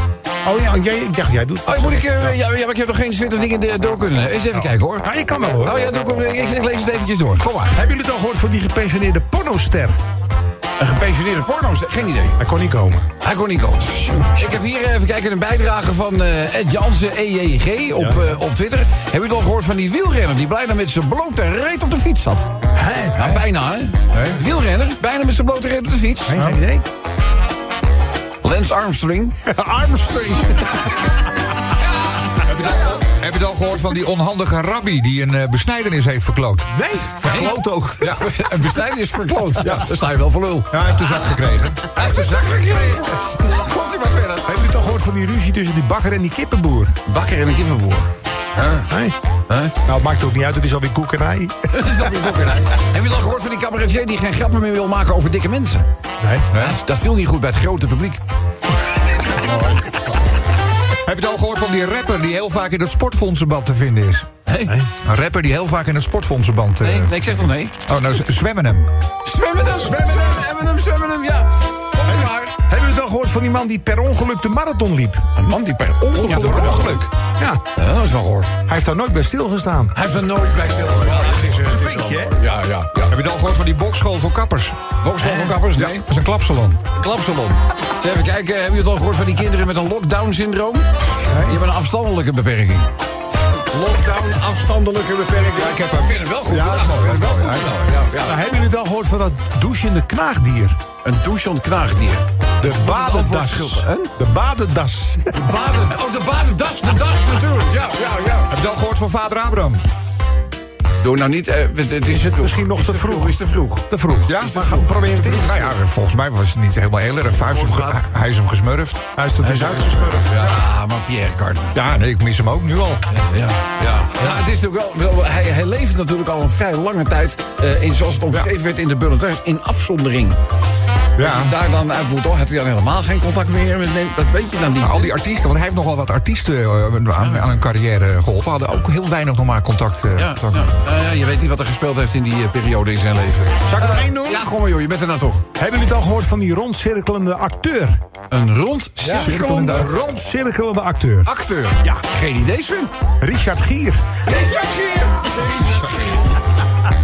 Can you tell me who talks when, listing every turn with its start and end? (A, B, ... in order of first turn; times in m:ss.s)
0:00.4-0:02.4 A
0:01.6-0:07.7 B
0:05.0-0:05.8 A
0:07.7-0:10.0 A
0:10.8-0:12.4 B
0:12.4-0:13.1 A
0:13.2-0:22.5 B
0:22.8-0:23.4 A
0:23.1-0:26.4 B
0:24.1-0:24.4 C
0:26.3-0:26.9 A
0:28.4-0:29.4 B
0:29.4-0:30.8 A
0:31.8-0:33.0 B
0:32.5-0:36.7 C
0:36.7-0:38.1 A
0:37.2-0:41.3 B
0:37.2-0:38.3 C
0:40.7-0:42.0 C
0:41.9-0:44.5 B
0:44.4-0:47.0 A
0:47.1-0:48.9 B
0:48.9-0:49.2 A
0:49.5-0:49.8 B
0:49.8-0:52.1 A
0:51.7-0:55.9 B
0:56.2-0:56.5 A
0:56.5-0:56.8 C
0:56.5-0:58.2 B
0:59.4-1:00.0 C
1:01.0-1:04.3 C
1:04.5-1:04.8 B
1:05.0-1:07.3 C
1:06.8-1:07.8 B
1:07.9-1:08.9 C
1:09.2-1:12.5 B
1:12.1-1:15.2 A
1:15.4-1:17.1 B
1:16.2-1:17.6 A
1:16.3-1:17.0 C
1:17.8-1:18.5 B
1:18.6-1:20.0 A
1:19.9-1:23.2 B
1:21.0-1:22.4 A
1:23.1-1:26.8 C
1:25.0-1:26.1 B
1:26.9-1:32.9 B
1:31.3-1:31.6 A
1:33.5-1:38.4 B
1:35.5-1:37.9 C
1:38.2-1:40.8 A
1:41.0-1:44.1 B
1:42.6-1:45.5 A
1:45.3-1:48.5 B
1:48.5-1:49.8 C
1:51.0-1:53.9 B
1:52.0-1:55.8 A
1:54.2-1:59.1 C
1:54.4-1:54.9 B
1:57.5-1:58.0 B
1:59.2-2:00.6 A
1:59.4-2:01.8 B
2:01.8-2:03.0 C
2:03.1-2:10.4 B
2:11.2-2:11.5 C
2:11.2-2:15.1 B
2:14.8-2:20.7 C
2:17.2-2:17.5 B
2:20.2-2:25.5 B
2:23.6-2:24.5 A
2:25.6-2:28.0 A
2:28.3-2:30.0 B
2:29.0-2:32.0 A
2:31.2-2:32.9 B
2:33.2-2:34.2 A
2:34.2-2:36.3 B